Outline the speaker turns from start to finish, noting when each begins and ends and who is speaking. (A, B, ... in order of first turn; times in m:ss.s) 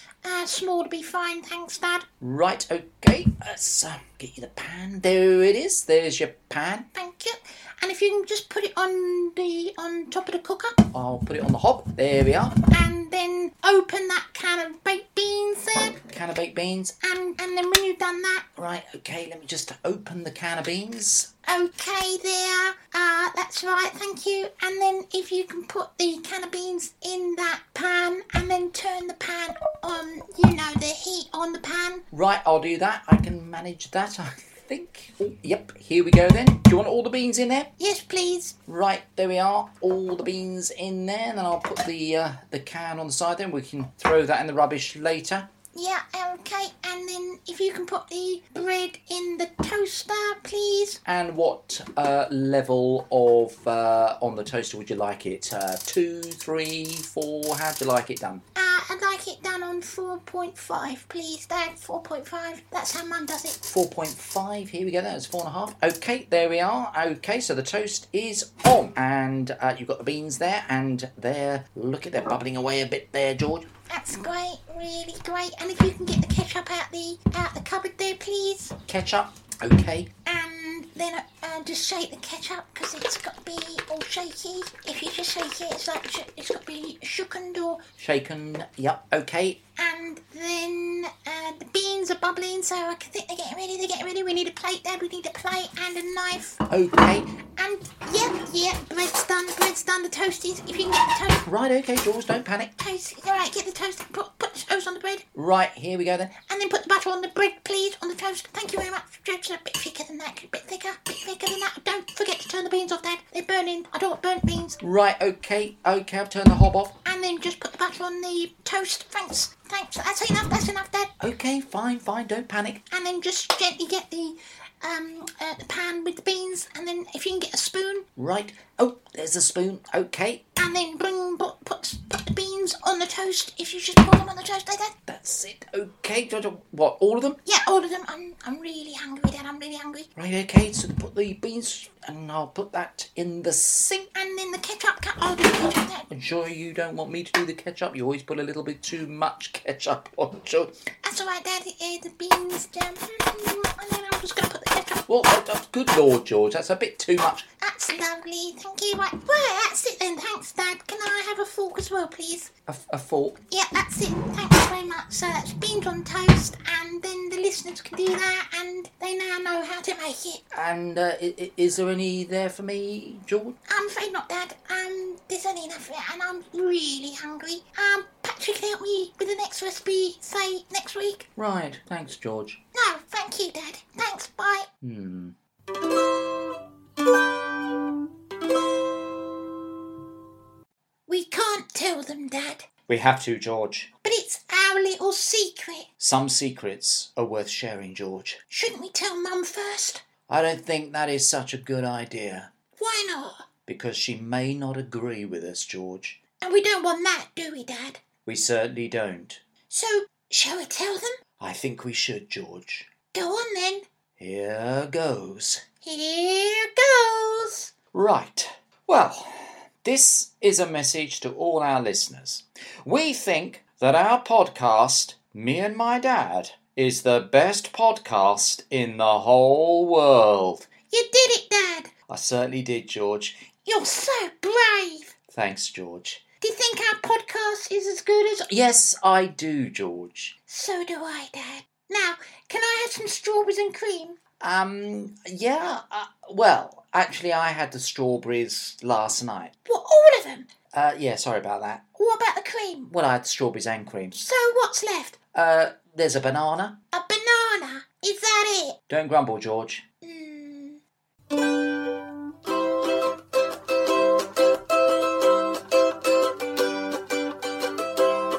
0:00.2-0:02.0 A
0:02.2-0:06.9 B
0:06.9-0:10.8 A
0:10.9-0:12.6 B
0:12.7-0:16.0 A
0:16.1-0:17.0 B
0:17.0-0:18.5 A
0:18.6-0:21.3 B
0:21.4-0:32.0 A
0:32.1-0:37.7 B
0:37.8-0:38.6 A
0:38.7-0:45.5 B
0:45.7-0:51.0 A
0:51.0-0:58.4 B
0:58.6-1:03.6 A
1:03.6-1:13.7 B
1:13.9-1:18.7 A
1:18.8-1:20.1 B
1:20.2-1:27.8 A
1:28.0-1:29.6 B
1:29.8-1:36.6 A
1:36.6-1:37.4 B
1:37.6-1:41.4 A
1:41.4-1:42.7 B
1:42.8-1:45.2 A
1:45.3-1:46.3 B
1:46.4-1:54.8 A
1:54.8-1:57.0 B
1:57.0-2:01.1 A
2:01.2-2:02.8 B
2:02.9-2:08.1 A
2:08.2-2:10.4 B
2:10.6-2:14.9 A
2:15.0-2:17.4 B
2:17.4-2:20.1 A
2:20.2-2:24.1 B
2:24.1-2:26.1 A
2:26.1-2:30.8 B
2:31.0-2:35.1 A
2:35.1-2:37.5 B
2:37.6-2:42.5 A
2:42.7-2:43.4 B
2:43.5-2:50.4 A
2:50.5-2:53.6 B
2:53.7-3:01.3 A
3:01.4-3:02.6 B
3:02.7-3:04.7 A
3:04.8-3:05.4 B
3:11.1-3:12.7 A
3:12.9-3:13.9 B
3:14.0-3:15.9 A
3:16.0-3:18.4 B
3:18.5-3:20.0 A
3:20.3-3:22.5 B
3:22.8-3:23.5 A
3:23.6-3:26.2 B
3:26.4-3:28.0 A
3:28.2-3:29.4 B
3:29.7-3:31.2 A
3:31.4-3:32.9 B
3:33.1-3:33.8 A
3:34.2-3:35.6 B
3:35.8-3:37.7 A
3:37.9-3:50.7 B
3:50.9-3:51.9 A
3:52.1-3:53.5 B
3:53.6-3:55.1 A
3:55.3-3:56.2 B
3:56.4-3:58.5 A
3:58.5-4:00.3 B
4:00.5-4:04.2 A
4:04.4-4:09.5 B
4:09.6-4:10.5 A
4:10.7-4:11.9 B
4:12.0-4:12.9 A
4:12.9-4:14.2 B
4:14.2-4:15.2 A
4:15.3-4:16.8 B
4:16.9-4:18.8 A
4:18.9-4:19.8 B
4:20.0-4:20.8 A